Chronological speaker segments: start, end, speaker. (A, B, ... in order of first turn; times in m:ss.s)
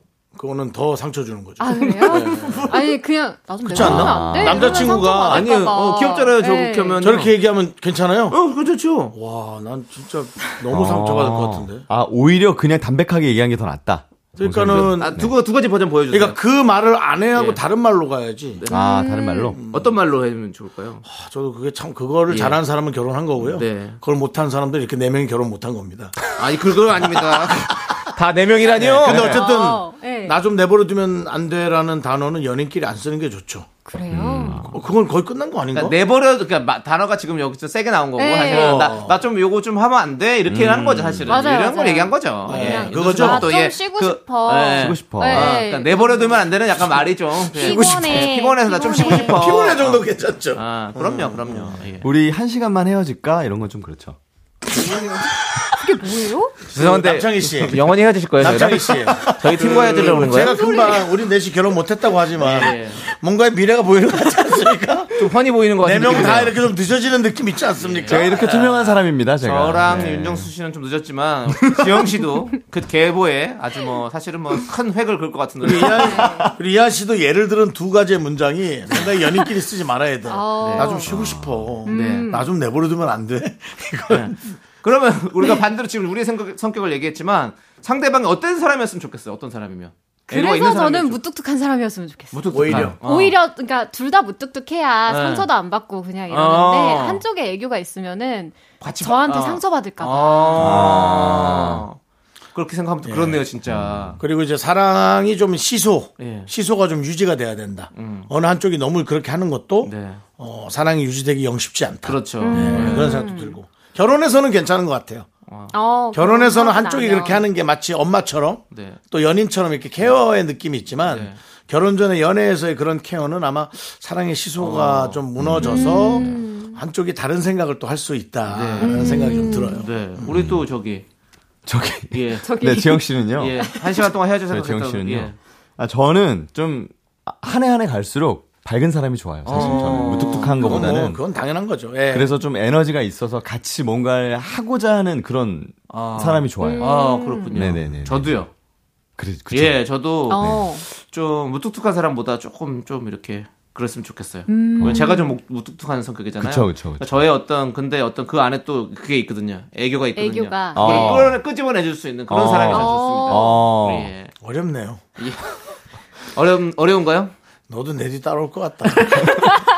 0:00.3-0:02.7 A
0:01.6-0:07.0 B
0:01.7-0:03.0 C
0:03.7-0:05.5 A
0:03.8-0:04.9 D
0:03.8-0:04.6 C
0:05.3-0:07.3 C
0:07.0-0:08.4 A
0:08.3-0:09.1 C
0:09.1-0:11.9 A
0:10.7-0:15.3 D
0:14.4-0:15.1 A
0:14.7-0:16.4 C
0:16.1-0:18.6 A
0:18.7-0:19.6 D
0:18.7-0:19.6 B
0:19.5-0:19.9 A
0:19.7-0:21.0 C
0:21.0-0:26.2 A
0:22.3-0:22.6 C
0:23.4-0:24.0 C
0:26.3-0:29.4 C
0:28.8-0:33.7 A
0:29.1-0:29.4 D
0:29.3-0:30.4 B
0:33.8-0:34.6 B
0:34.1-0:34.7 D
0:34.6-0:36.0 A
0:35.7-0:50.0 C
0:38.2-0:39.0 B
0:38.5-0:39.2 A
0:40.5-0:41.4 D
0:41.2-0:46.5 B
0:42.5-0:43.5 A
0:44.8-0:45.6 D
0:47.5-0:49.4 B
0:47.6-0:48.2 A
0:49.0-0:51.8 A
0:50.5-0:52.1 C
0:52.0-0:54.2 D
0:54.7-0:56.6 B
0:56.7-0:57.8 A
0:56.7-1:00.6 C
0:58.4-1:05.1 A
1:00.4-1:01.1 B
1:02.4-1:03.0 C
1:05.2-1:06.6 C
1:05.8-1:08.4 A
1:07.8-1:16.2 C
1:08.1-1:10.5 D
1:15.6-1:24.6 A
1:16.0-1:16.5 B
1:16.2-1:16.5 D
1:20.2-1:21.1 B
1:20.6-1:21.2 C
1:21.8-1:22.5 B
1:21.9-1:22.3 C
1:24.1-1:31.2 C
1:30.3-1:41.0 B
1:32.3-1:33.4 C
1:32.5-1:33.0 A
1:35.1-1:35.5 C
1:36.3-1:37.2 C
1:38.8-1:42.0 C
1:40.6-1:41.8 D
1:42.5-1:44.2 C
1:43.0-1:43.4 A
1:43.7-1:44.2 D
1:44.2-1:55.3 A
1:46.2-1:46.5 C
1:47.9-1:48.3 C
1:49.8-1:50.2 C
1:52.0-1:53.2 C
1:52.4-1:53.6 B
1:55.5-1:55.7 C
1:55.7-1:57.5 B
1:56.1-2:10.3 A
1:58.7-1:59.0 C
2:01.0-2:01.4 C
2:04.6-2:05.2 C
2:05.6-2:06.8 B
2:06.0-2:06.4 C
2:08.5-2:09.0 C
2:08.8-2:09.9 B
2:09.8-2:11.0 C
2:10.2-2:10.6 D
2:11.6-2:13.6 D
2:12.1-2:12.5 C
2:12.4-2:14.0 B
2:13.4-2:15.4 C
2:14.5-2:21.2 D
2:19.4-2:20.7 C
2:19.5-2:20.9 B
2:20.6-2:22.3 A
2:22.1-2:28.4 D
2:25.9-2:28.5 C
2:26.6-2:27.6 B
2:29.2-2:29.8 D
2:29.5-2:44.3 C
2:30.3-2:30.8 B
2:30.3-2:30.6 D
2:34.5-2:35.4 B
2:34.8-2:35.1 D
2:36.4-2:37.0 D
2:40.2-2:41.3 B
2:40.7-2:41.4 D
2:42.3-2:44.1 D
2:42.6-2:43.6 B
2:44.4-2:45.0 A
2:45.2-2:45.6 C
2:46.3-2:47.3 C
2:47.7-2:49.2 A